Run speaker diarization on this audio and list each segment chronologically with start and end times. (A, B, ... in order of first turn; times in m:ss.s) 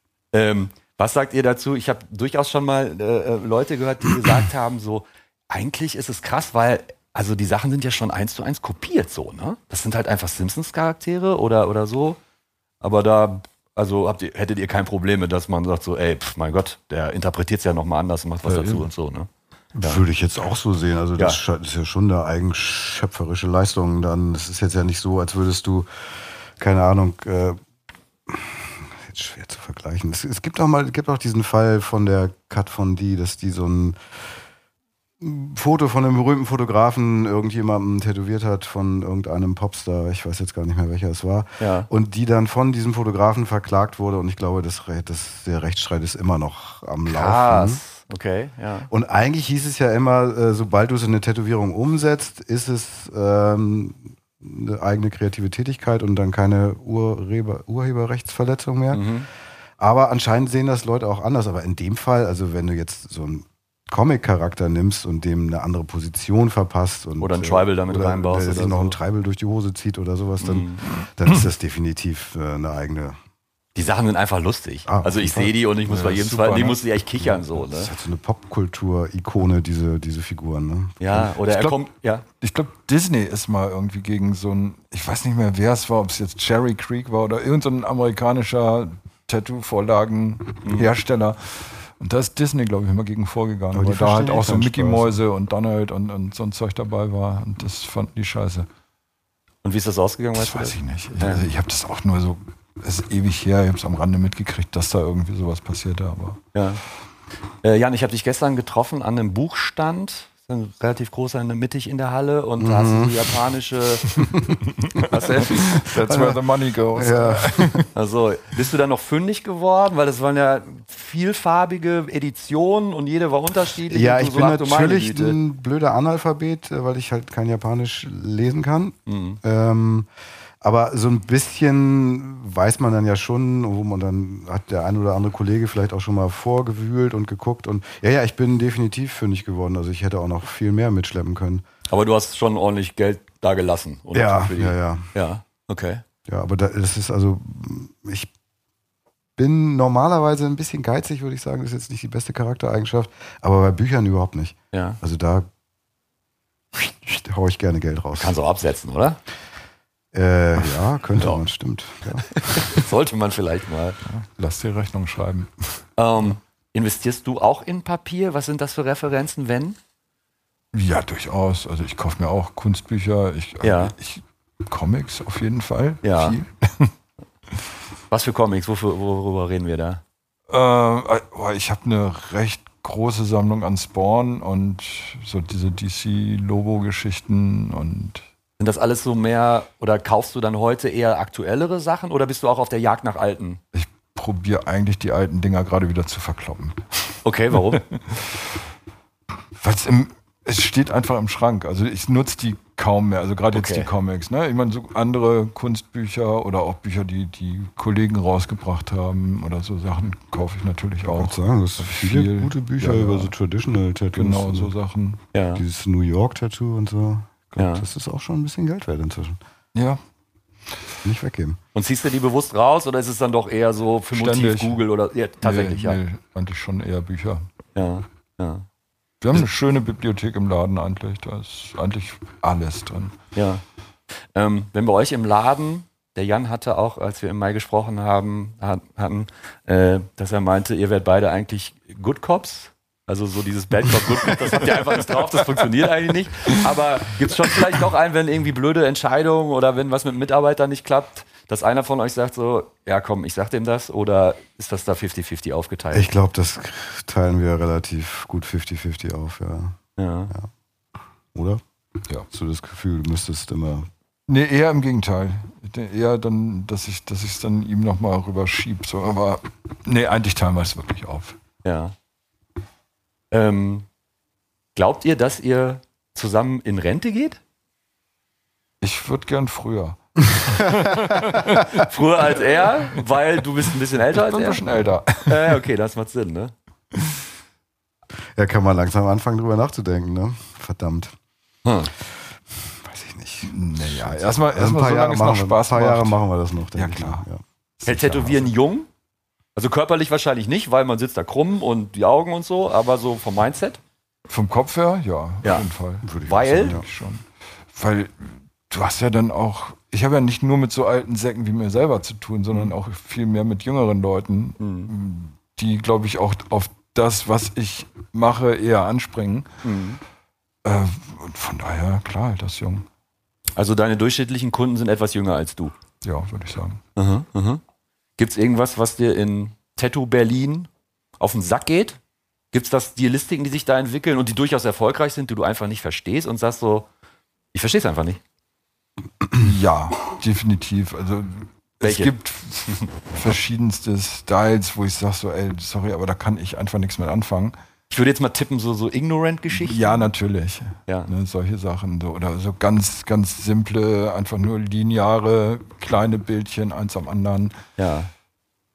0:00.3-0:12.2 A
0:12.8-0:19.3 A
0:18.4-0:18.8 B
0:19.8-0:25.9 C
0:26.6-0:27.6 C
0:28.3-0:34.0 C
0:35.2-0:47.8 C
0:41.6-0:41.9 A
0:47.0-0:48.9 A
0:48.9-0:59.0 C
0:58.9-0:59.3 A
0:59.8-1:13.2 C
1:07.2-1:09.0 A
1:10.4-1:10.8 A
1:13.7-1:17.9 A
1:14.8-1:15.5 C
1:15.8-1:16.8 B
1:17.7-1:21.3 C
1:21.0-1:22.2 A
1:21.5-1:21.8 B
1:22.4-1:38.7 B
1:33.7-1:35.2 C
1:39.6-1:41.4 A
1:40.4-1:46.4 B
1:46.5-1:46.8 A
1:47.6-1:54.1 A
1:52.6-1:53.3 C
1:54.1-1:55.0 C
1:54.8-1:57.9 B
1:55.1-1:55.7 A
1:55.9-1:56.4 C
1:56.9-1:57.8 C
1:57.9-2:05.4 A
2:03.8-2:10.1 C
2:09.1-2:09.4 A
2:10.6-2:21.6 C
2:21.9-2:26.0 A
2:24.1-2:25.1 C
2:26.3-2:28.3 C
2:29.4-2:35.5 C
2:34.7-2:35.0 A
2:36.7-2:38.4 C
2:38.2-2:39.2 A
2:40.1-2:42.8 C
2:42.3-2:44.0 A
2:44.0-2:45.8 B
2:46.0-2:49.8 A
2:50.7-2:56.9 B
2:53.6-2:53.9 A
2:56.0-2:56.4 A
2:58.1-3:00.0 A
3:00.5-3:08.2 B
3:08.6-3:13.6 A
3:13.7-3:18.4 B
3:17.2-3:17.8 A
3:19.6-3:33.3 B
3:23.5-3:23.9 A
3:31.0-3:34.7 C
3:34.1-3:35.2 B
3:35.3-3:35.6 A
3:35.5-3:39.4 C
3:37.6-3:37.8 A
3:39.7-3:40.0 B
3:41.0-3:41.6 C
3:41.7-3:46.0 A
3:44.1-3:44.8 B
3:45.4-3:47.4 B
3:47.7-3:48.6 A
3:49.2-3:53.2 B
3:53.3-3:53.6 A
3:54.3-4:16.1 A
4:15.9-4:19.8 C
4:20.0-4:20.3 A
4:21.3-4:21.6 C
4:22.3-4:23.9 C
4:24.3-4:31.4 B
4:31.6-4:31.9 A
4:33.3-4:33.9 A
4:34.7-4:37.4 A
4:38.8-4:41.8 B
4:40.4-4:41.6 C
4:41.6-4:44.6 A
4:44.1-4:45.6 B
4:45.2-4:46.5 A
4:48.4-4:51.1 C
4:51.6-4:51.9 A
4:52.5-4:57.4 C
4:53.4-4:56.2 B
4:56.7-4:57.2 B
4:57.8-4:58.5 B
4:57.8-4:58.9 A
4:59.6-5:03.8 A
5:04.3-5:19.5 B
5:06.0-5:06.8 C
5:06.2-5:06.8 A
5:14.6-5:14.9 A
5:19.6-5:20.0 A
5:20.6-5:22.8 B
5:23.6-5:25.7 A
5:26.0-5:26.8 B
5:27.0-5:27.6 A
5:28.2-5:32.0 A
5:32.5-5:36.9 A
5:37.5-5:38.2 A
5:39.3-5:47.6 B
5:41.8-5:42.1 A
5:47.9-5:50.0 A
5:49.5-5:57.6 B
5:57.8-5:58.1 A